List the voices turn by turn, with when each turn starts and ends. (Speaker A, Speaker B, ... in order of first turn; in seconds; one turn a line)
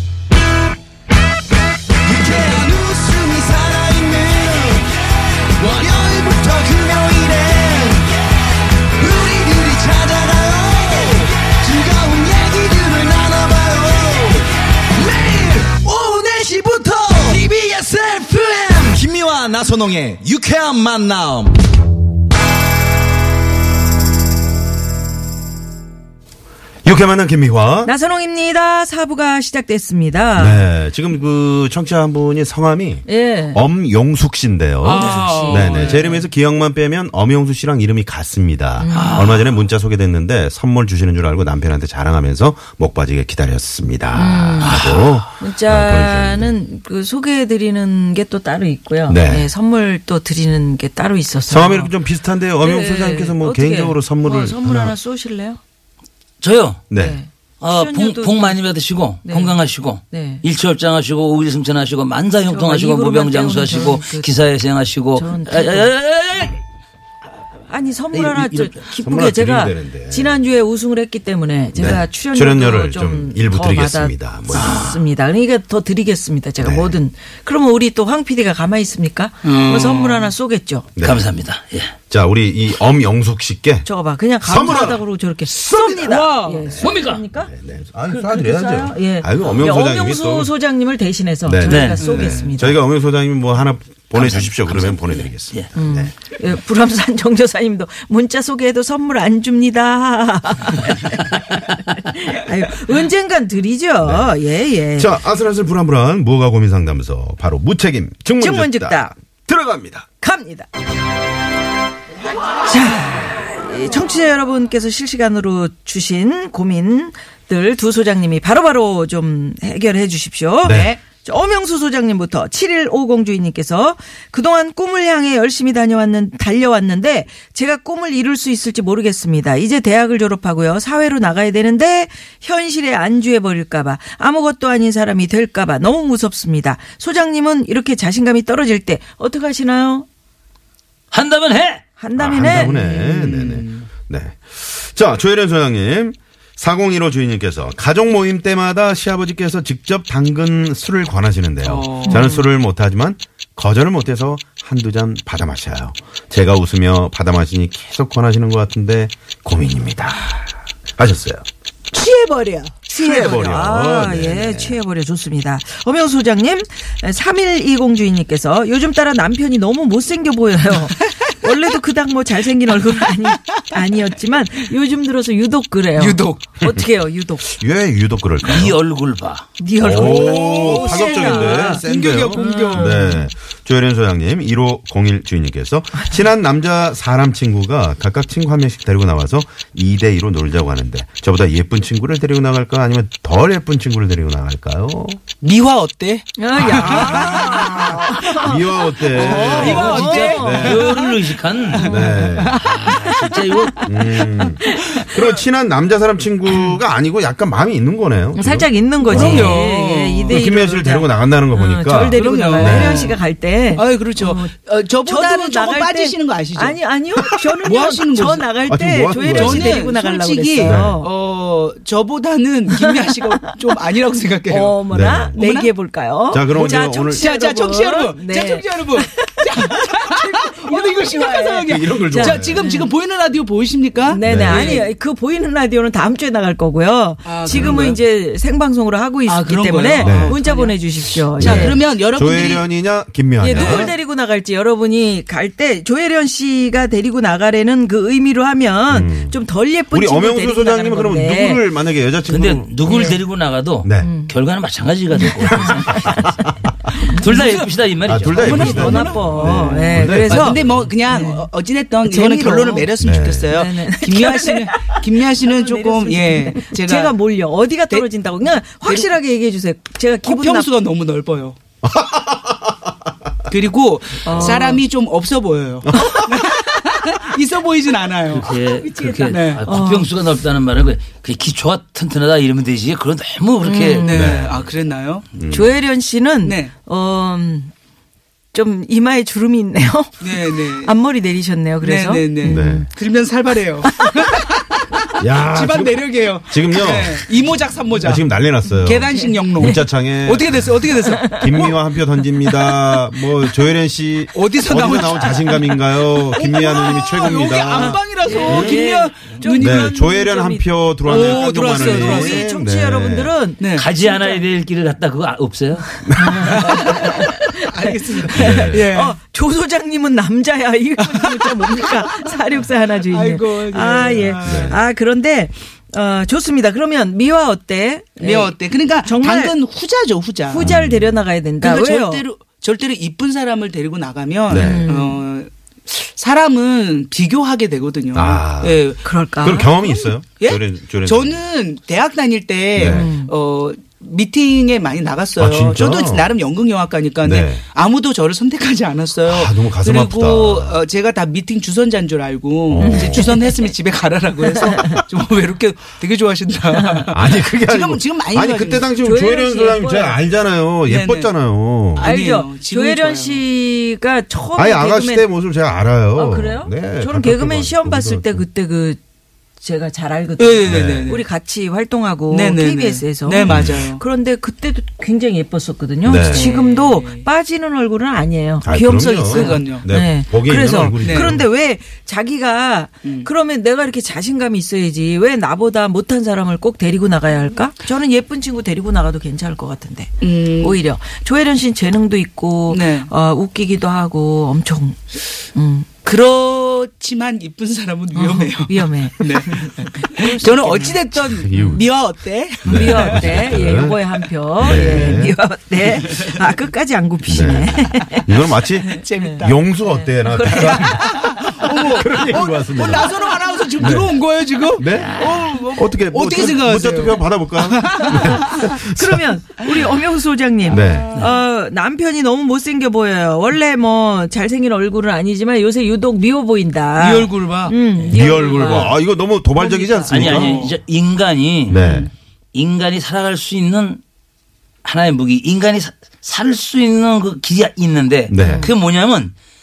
Speaker A: 2.0-4.9
Speaker A: 5.5-8.1
Speaker A: 9.0-21.6
Speaker B: 26.8-27.9
Speaker C: 27.8-30.7
Speaker B: 30.4-46.5
Speaker C: 33.0-33.6
Speaker C: 34.8-36.0
Speaker D: 34.9-36.0
Speaker C: 38.8-39.3
Speaker E: 38.9-39.5
Speaker C: 44.1-52.0
Speaker E: 44.6-45.2
Speaker B: 49.1-49.5
Speaker B: 51.5-55.0
Speaker C: 52.6-55.6
Speaker E: 56.4-56.8
Speaker B: 56.9-57.2
Speaker C: 56.9-58.6
Speaker E: 57.6-66.6
Speaker C: 59.2-60.4
Speaker C: 62.5-64.3
Speaker C: 65.1-65.9
Speaker C: 67.7-80.9
Speaker E: 68.1-68.8
Speaker B: 69.0-70.4
Speaker B: 71.8-74.8
Speaker E: 74.5-75.0
Speaker B: 76.6-77.0
Speaker D: 79.4-80.3
Speaker B: 81.0-81.2
Speaker E: 81.0-81.9
Speaker B: 82.1-83.9
Speaker C: 83.8-87.5
Speaker B: 84.4-85.0
Speaker E: 85.7-87.2
Speaker D: 85.9-86.6
Speaker B: 86.6-90.5
Speaker C: 88.1-92.8
Speaker B: 91.4-96.1
Speaker E: 91.7-92.1
Speaker D: 92.0-92.5
Speaker E: 94.1-95.7
Speaker C: 95.8-105.2
Speaker B: 104.0-104.4
Speaker B: 104.9-110.0
Speaker C: 108.4-109.1
Speaker C: 110.2-110.7
Speaker C: 112.6-140.1
Speaker B: 120.6-121.0
Speaker E: 141.1-141.8
Speaker C: 142.0-143.4
Speaker B: 142.2-160.3
Speaker D: 143.4-143.8
Speaker D: 151.6-152.3
Speaker C: 152.1-152.4
Speaker B: 161.0-161.4
Speaker D: 161.9-162.9
Speaker C: 162.8-177.5
Speaker B: 163.0-164.8
Speaker D: 176.0-176.4
Speaker B: 177.4-178.8
Speaker E: 178.5-179.5
Speaker C: 179.6-181.8
Speaker B: 179.8-195.2
Speaker D: 179.9-183.0
Speaker C: 182.3-183.3
Speaker D: 195.4-198.4
Speaker C: 196.4-201.2
Speaker B: 196.6-200.9
Speaker D: 199.0-201.0
Speaker E: 199.4-201.9
Speaker D: 201.7-203.6
Speaker B: 201.8-202.6
Speaker C: 201.8-202.3
Speaker E: 202.6-203.8
Speaker C: 203.3-205.1
Speaker B: 203.8-209.6
Speaker C: 208.3-214.5
Speaker D: 209.0-210.4
Speaker B: 210.3-213.1
Speaker D: 212.1-213.2
Speaker D: 213.8-216.8
Speaker C: 215.0-221.1
Speaker D: 217.6-218.5
Speaker B: 218.7-219.8
Speaker D: 219.1-224.8
Speaker B: 220.6-221.0
Speaker C: 222.7-223.5
Speaker C: 224.5-232.9
Speaker B: 224.9-225.4
Speaker D: 225.3-225.7
Speaker B: 226.3-227.2
Speaker D: 227.1-234.9
Speaker B: 231.6-232.6
Speaker C: 234.1-241.8
Speaker B: 234.2-234.8
Speaker D: 237.2-238.0
Speaker B: 237.5-237.8
Speaker D: 239.2-242.7
Speaker B: 240.0-240.3
Speaker B: 241.4-243.9
Speaker C: 243.4-251.7
Speaker D: 243.5-243.9
Speaker B: 248.9-249.4
Speaker B: 249.9-252.7
Speaker E: 252.3-256.4
Speaker C: 252.8-253.2
Speaker B: 253.8-254.1
Speaker C: 254.0-254.3
Speaker C: 255.1-256.3
Speaker B: 255.7-256.2
Speaker E: 257.0-258.8
Speaker D: 257.2-257.7
Speaker B: 258.0-260.9
Speaker D: 258.3-267.2
Speaker C: 258.4-261.5
Speaker C: 262.0-262.9
Speaker B: 263.0-263.5
Speaker C: 263.5-270.7
Speaker D: 268.8-269.1
Speaker D: 270.2-271.6
Speaker B: 271.8-272.8
Speaker D: 273.5-278.5
Speaker C: 274.2-274.8
Speaker B: 275.9-276.3
Speaker E: 278.3-284.3
Speaker C: 278.5-280.1
Speaker D: 279.3-279.6
Speaker C: 283.6-284.4
Speaker D: 284.0-285.3
Speaker B: 284.1-284.6
Speaker B: 285.3-285.8
Speaker C: 285.5-287.7
Speaker D: 286.4-286.7
Speaker C: 288.5-292.9
Speaker D: 290.2-290.9
Speaker D: 291.8-298.3
Speaker B: 292.4-292.9
Speaker C: 293.9-294.1
Speaker B: 295.2-297.3
Speaker B: 298.0-308.9
Speaker D: 298.8-301.7
Speaker C: 299.1-299.8
Speaker C: 301.1-301.7
Speaker C: 302.4-302.8
Speaker D: 304.3-305.8
Speaker D: 306.4-309.9
Speaker C: 307.7-314.4
Speaker B: 309.5-313.3
Speaker D: 311.1-312.5
Speaker D: 313.6-313.9
Speaker E: 313.8-316.0
Speaker C: 316.1-329.6
Speaker B: 316.1-316.6
Speaker D: 316.4-319.2
Speaker B: 318.3-318.9
Speaker D: 321.2-322.3
Speaker D: 323.0-324.8
Speaker B: 324.4-324.8
Speaker D: 328.2-330.7
Speaker C: 330.5-332.2
Speaker B: 330.6-331.2
Speaker D: 331.6-339.0
Speaker B: 334.5-334.9
Speaker C: 334.5-335.2
Speaker B: 338.1-341.4
Speaker C: 339.0-339.7
Speaker D: 339.8-358.9
Speaker B: 342.8-343.1
Speaker C: 342.8-343.3
Speaker B: 345.4-346.3
Speaker B: 347.2-347.6
Speaker B: 349.2-350.8
Speaker B: 352.7-353.4
Speaker C: 352.8-353.7
Speaker C: 354.5-354.9
Speaker B: 357.1-362.1
Speaker C: 359.0-360.2
Speaker D: 360.9-361.3
Speaker D: 361.9-363.4
Speaker C: 362.0-365.3
Speaker B: 364.6-368.4
Speaker C: 366.2-369.0
Speaker C: 369.6-395.9
Speaker D: 370.4-371.2
Speaker B: 370.7-371.2
Speaker D: 372.3-374.0
Speaker B: 373.4-373.8
Speaker B: 376.0-376.5
Speaker D: 376.1-377.2
Speaker B: 378.6-381.5
Speaker D: 379.3-379.9
Speaker D: 381.0-381.4
Speaker D: 383.0-383.3
Speaker D: 390.2-390.8
Speaker D: 392.7-393.1
Speaker D: 396.1-403.4
Speaker C: 398.1-401.8
Speaker B: 401.4-401.9
Speaker B: 402.6-404.0
Speaker C: 402.6-411.2
Speaker B: 404.6-405.4
Speaker D: 404.9-405.2
Speaker D: 405.8-406.4
Speaker B: 407.3-414.2
Speaker D: 408.8-409.6
Speaker D: 410.5-418.6
Speaker C: 413.5-413.9
Speaker B: 414.8-419.3
Speaker E: 414.9-415.4
Speaker C: 418.0-429.0
Speaker B: 420.7-421.3
Speaker D: 427.0-428.9
Speaker B: 428.0-430.6
Speaker C: 429.6-430.7
Speaker E: 430.1-431.8
Speaker D: 430.3-430.8
Speaker B: 431.7-432.1
Speaker C: 431.8-432.1
Speaker E: 432.5-434.0
Speaker E: 434.8-439.3
Speaker B: 438.3-438.7
Speaker C: 438.4-438.7